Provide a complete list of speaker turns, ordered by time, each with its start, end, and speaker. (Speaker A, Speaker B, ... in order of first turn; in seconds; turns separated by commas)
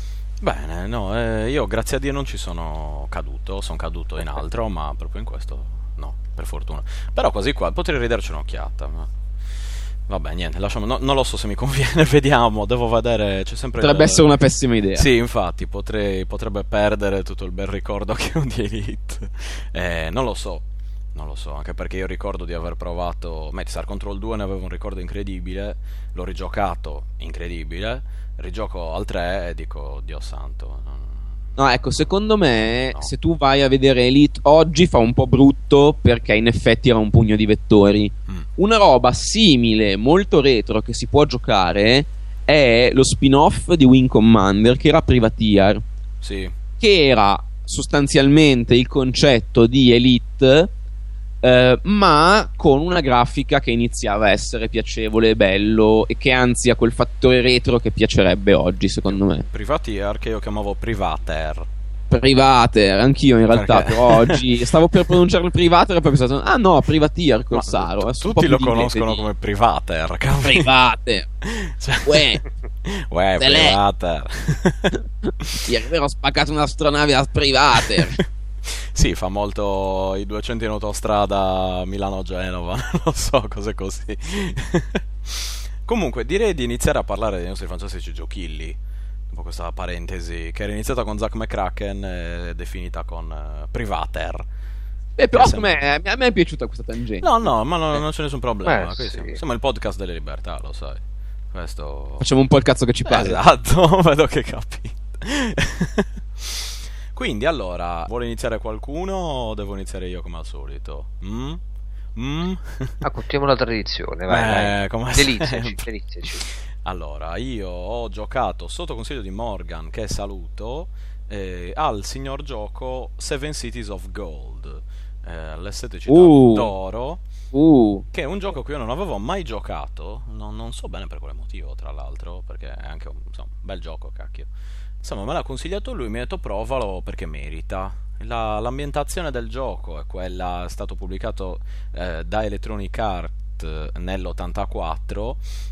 Speaker A: 0.4-9.1, Speaker A: 10.1-14.3, Speaker B: 13.8-15.1, Speaker A: 14.9-20.6, Speaker A: 21.1-31.3, Speaker B: 31.6-45.8, Speaker A: 46.2-46.5, Speaker B: 46.8-50.7, Speaker B: 51.4-59.4, Speaker A: 59.1-61.7, Speaker B: 62.1-69.2, Speaker A: 63.5-64.4, Speaker A: 67.5-70.7, Speaker B: 70.4-71.3, Speaker A: 71.4-75.6, Speaker B: 72.0-72.4, Speaker B: 73.4-73.8, Speaker B: 75.6-78.2, Speaker A: 77.8-88.8, Speaker A: 89.3-94.5, Speaker B: 95.2-98.0, Speaker A: 95.3-95.8, Speaker A: 97.2-101.0, Speaker C: 98.6-99.4, Speaker A: 101.5-102.3, Speaker B: 102.2-103.4, Speaker A: 103.0-111.6, Speaker A: 112.1-113.0, Speaker C: 113.0-116.4, Speaker A: 114.3-115.8, Speaker A: 116.4-127.2, Speaker B: 126.1-126.7, Speaker B: 127.5-128.1, Speaker A: 128.1-134.5, Speaker A: 135.0-145.4